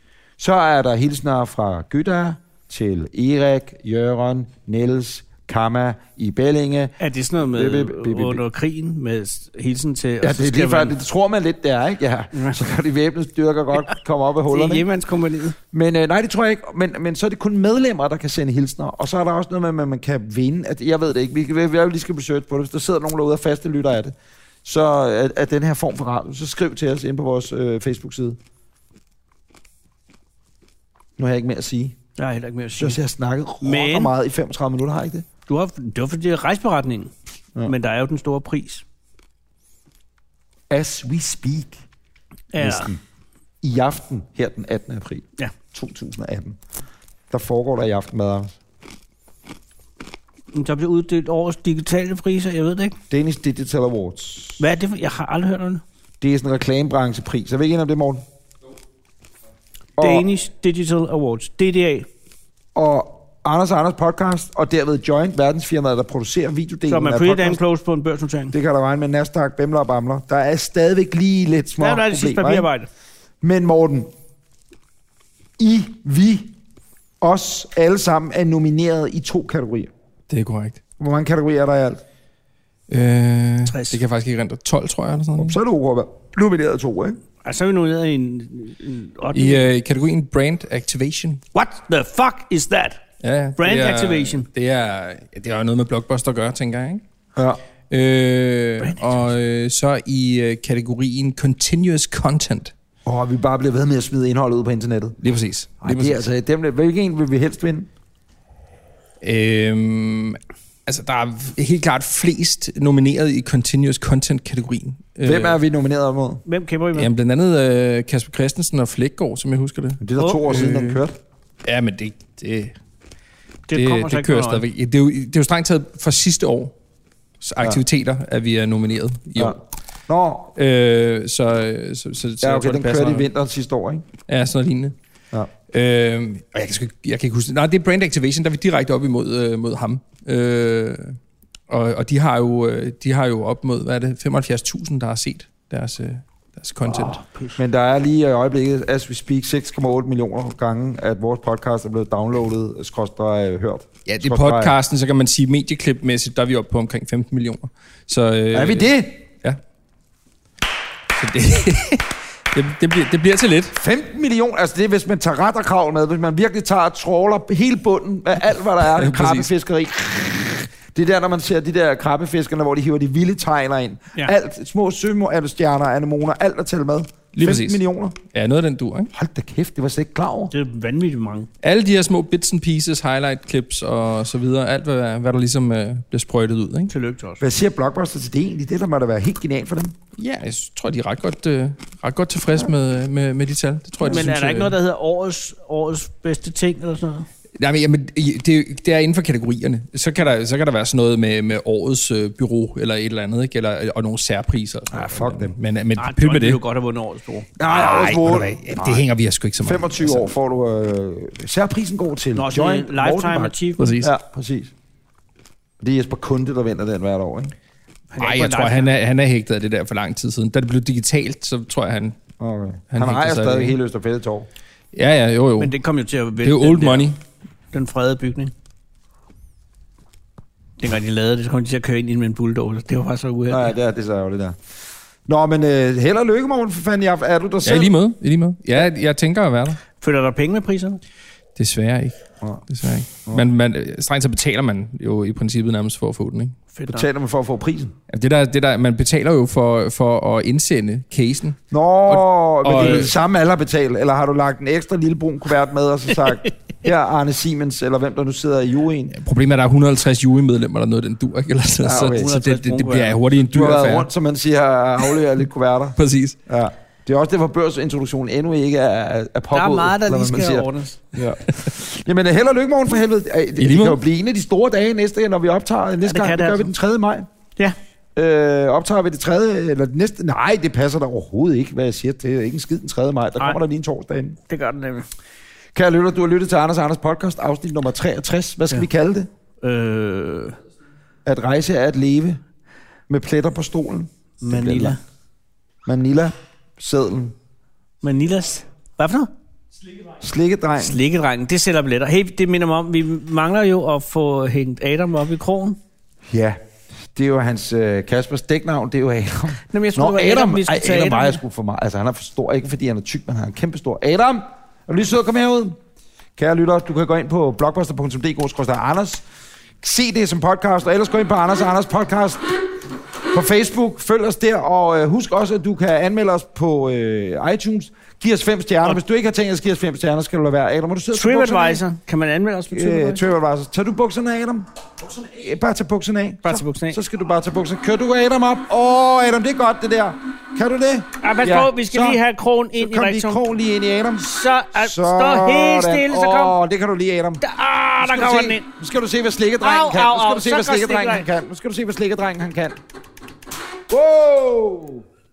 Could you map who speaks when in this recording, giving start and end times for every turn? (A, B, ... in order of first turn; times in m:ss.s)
0:00.4-0:08.4 A
0:07.0-0:10.9 B
0:10.2-0:14.9 A
0:12.3-0:12.6 B
0:14.5-0:15.6 B
0:15.7-0:24.1 A
0:24.6-0:28.4 A
0:31.2-0:32.0 A
0:32.2-0:33.0 B
0:32.7-0:35.2 A
0:33.6-0:34.1 B
0:35.5-0:37.1 B
0:37.6-0:38.8 B
0:40.7-0:41.8 A
0:42.5-0:42.9 B
0:42.6-0:43.0 A
0:43.6-0:46.6 A
0:47.3-0:48.5 A
0:50.5-0:53.0 B
0:53.1-0:54.6 A
0:54.6-0:55.8 B
0:56.2-0:58.2 A
1:00.0-1:00.2 A
1:00.0-1:02.1 B
1:02.7-1:07.6 A
1:06.9-1:08.5 B
1:08.5-1:12.7 A
1:11.8-1:12.9 B
1:13.4-1:14.1 A
1:15.6-1:16.5 A
1:17.2-1:19.9 A
1:20.3-1:20.8 C
1:21.0-1:22.0 A
1:22.9-1:25.6 C
1:23.7-1:24.0 B
1:25.4-1:27.2 A
1:27.4-1:29.6 B
1:29.3-1:31.4 C
1:31.5-1:33.0 B
1:33.2-1:37.0 C
1:33.6-1:34.5 B
1:37.9-1:42.7 C
1:43.0-1:45.2 A
1:45.2-1:46.2 C
1:45.8-1:47.9 A
1:49.2-1:55.6 C
1:55.2-1:56.4 A
1:56.4-1:57.1 B
1:56.9-2:01.0 C
2:00.0-2:01.1 A
2:01.6-2:02.7 C
2:03.7-2:04.6 B
2:03.7-2:06.7 C
2:07.4-2:09.6 C
2:09.4-2:10.5 A
2:10.6-2:13.3 C
2:12.4-2:14.1 A
2:14.2-2:14.9 C
2:15.7-2:21.2 C
2:21.7-2:27.2 C
2:26.9-2:27.5 B
2:27.6-2:34.8 A
2:34.0-2:39.6 C
2:38.5-2:39.2 A
2:41.1-2:43.8 C
2:43.7-2:58.2 A
2:48.8-2:49.5 C
2:57.3-2:59.1 C
2:59.1-3:00.5 A
3:00.5-3:01.5 B
3:01.6-3:06.9 C
3:06.9-3:07.4 B
3:07.4-3:10.0 A
3:10.2-3:14.8 C
3:14.0-3:17.3 B
3:17.6-3:26.6 C
3:24.9-3:25.6 A
3:26.0-3:27.5 B
3:27.6-3:29.1 A
3:27.6-3:30.3 C
3:29.6-3:34.7 A
3:32.3-3:33.9 B
3:33.8-3:34.1 C
3:35.8-3:37.5 A
3:38.1-3:38.9 B
3:38.2-3:42.2 C
3:42.4-3:44.5 A
3:42.9-3:43.8 C
3:44.9-3:45.7 C
3:45.6-3:47.1 B
3:46.4-3:47.2 C
3:47.7-3:48.5 B
3:50.8-3:53.7 B
3:53.5-3:54.6 A
3:55.2-3:57.9 A
3:57.6-3:59.8 C
4:00.0-4:01.0 B
4:01.6-4:06.6 C
4:06.7-4:07.1 B
4:06.9-4:07.9 A
4:08.1-4:13.1 C
4:11.7-4:19.2 A
4:12.8-4:13.1 B
4:19.1-4:24.1 C
4:21.8-4:22.3 A
4:22.0-4:23.2 B
4:23.5-4:37.3 A
4:26.0-4:26.4 C
4:29.5-4:31.0 B
4:33.6-4:34.0 C
4:36.0-4:36.7 B
4:38.2-4:44.4 A
4:44.5-4:45.1 B
4:45.7-4:49.3 A
4:49.6-4:50.6 B
4:51.2-4:52.4 A
4:53.1-4:55.0 A
4:54.4-4:55.0 B
4:55.8-4:57.3 A
4:58.0-4:59.3 B
5:00.2-5:01.0 A
5:00.8-5:05.8 B
5:06.3-5:06.6 A
5:07.1-5:15.8 A
5:09.7-5:11.4 B
5:16.4-5:19.2 A
5:19.8-5:22.5 A
5:23.3-5:31.8 A
5:31.1-5:33.3 B
5:32.7-5:42.2 A
5:36.4-5:37.0 B
5:41.2-5:43.4 B
5:42.8-5:47.4 A
5:44.2-5:46.6 B
5:47.4-5:48.7 B
5:48.0-5:52.8 A
5:49.6-5:51.3 B
5:53.9-5:55.0 A